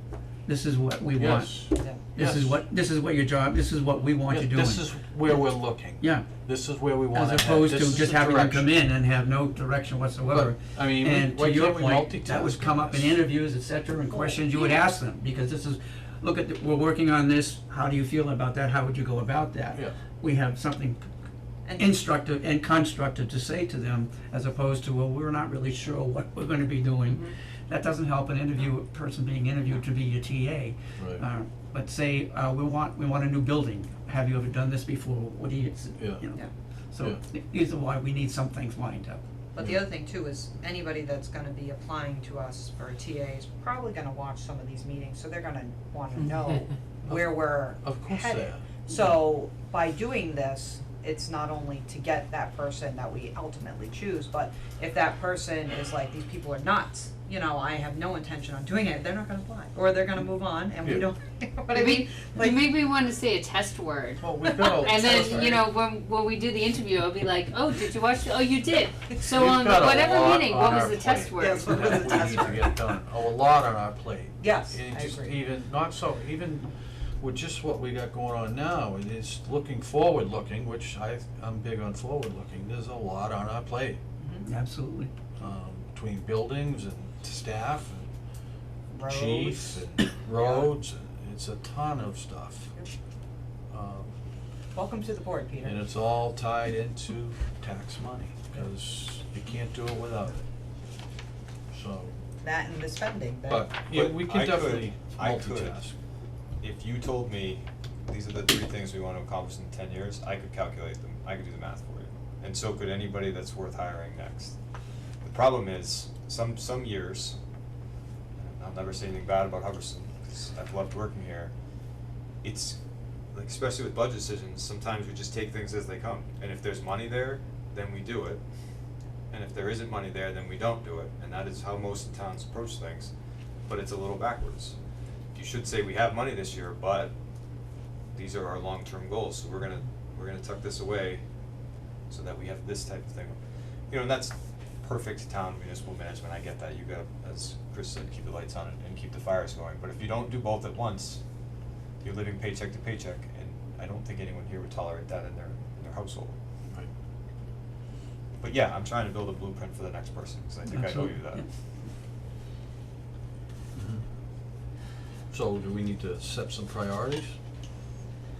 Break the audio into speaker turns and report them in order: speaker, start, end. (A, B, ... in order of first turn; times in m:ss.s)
0:00.4-0:04.8 A
0:01.2-0:02.6 B
0:01.7-0:02.0 C
0:04.3-0:08.7 B
0:06.0-0:06.3 A
0:07.1-0:21.1 A
0:10.2-0:13.2 B
0:14.1-0:14.8 C
0:21.6-0:22.0 C
0:21.8-0:39.2 A
0:31.0-0:31.2 B
0:36.0-0:36.3 B
0:39.5-1:02.7 C
0:47.0-0:48.8 B
1:01.7-1:12.2 D
1:04.2-1:05.6 B
1:04.5-1:05.5 C
1:09.2-1:24.0 B
1:11.4-1:12.9 C
1:14.4-1:15.4 C
1:24.2-1:24.4 C
1:24.4-1:25.1 A
1:25.4-1:28.1 B
1:28.9-1:30.7 C
1:29.0-1:32.8 B
1:33.7-1:34.1 B
1:34.7-1:35.9 C
1:35.6-1:40.4 B
1:41.7-1:42.2 B
1:42.4-1:43.7 C
1:43.5-1:46.0 B
1:43.9-1:45.7 E
1:46.6-1:54.5 E
1:55.2-1:57.4 E
1:58.4-2:01.5 E
2:02.4-2:02.8 E
2:03.3-2:08.4 E
2:09.3-2:13.1 E
2:13.7-2:14.8 E
2:15.3-2:17.1 E
2:18.1-2:21.2 E
2:22.1-2:23.4 E
2:23.9-2:31.2 E
2:32.0-2:36.4 E
2:38.4-2:41.4 E
2:40.6-2:41.5 A
2:43.7-2:44.0 B
2:45.3-2:47.4 B